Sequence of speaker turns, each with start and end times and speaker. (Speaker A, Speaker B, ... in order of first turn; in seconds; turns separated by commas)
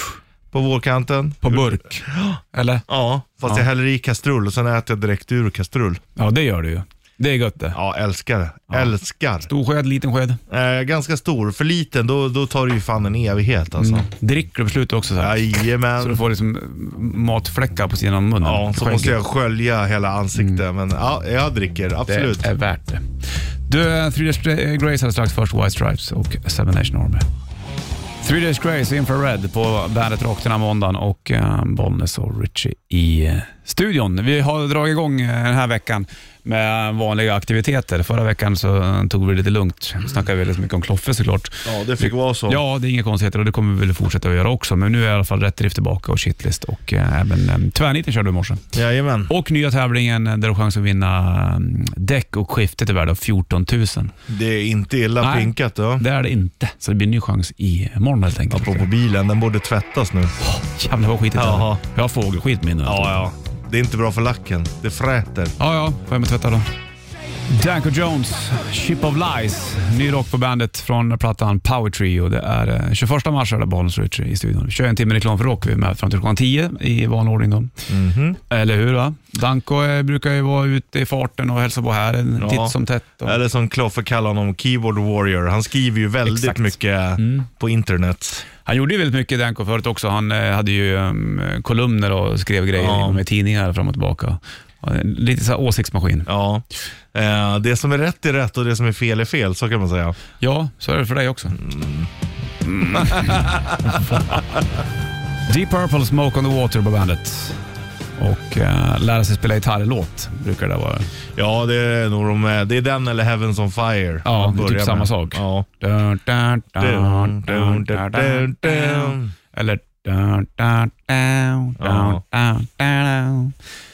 Speaker A: 0.5-6.0, Speaker B: 1.4-2.9, Speaker B: 6.2-7.8, Speaker A: 7.7-9.5, Speaker B: 9.5-10.4, Speaker A: 10.5-14.1, Speaker B: 13.8-15.4, Speaker A: 15.2-16.2, Speaker B: 16.0-19.2, Speaker A: 18.4-22.5, Speaker B: 20.4-20.6, Speaker B: 22.1-23.1, Speaker B: 23.7-27.3, Speaker B: 28.2-48.6, Speaker A: 41.6-42.6, Speaker A: 48.7-49.3, Speaker B: 49.3-54.1, Speaker A: 54.3-56.0, Speaker B: 55.2-58.9, Speaker A: 58.5-60.4, Speaker B: 60.4-63.2, Speaker A: 61.3-61.8, Speaker A: 62.9-65.5, Speaker B: 65.6-66.7, Speaker B: 67.5-77.9, Speaker A: 77.9-78.4, Speaker B: 78.5-83.4, Speaker A: 82.4-88.5, Speaker B: 86.3-87.5, Speaker B: 88.7-96.3, Speaker A: 92.8-93.2, Speaker A: 96.3-100.2, Speaker B: 100.4-101.6, Speaker A: 101.6-102.1, Speaker B: 102.7-104.4, Speaker A: 102.9-104.6, Speaker B: 105.5-107.6, Speaker B: 108.2-111.1, Speaker A: 111.3-115.7, Speaker B: 114.2-123.5, Speaker A: 116.8-119.3, Speaker A: 121.8-122.2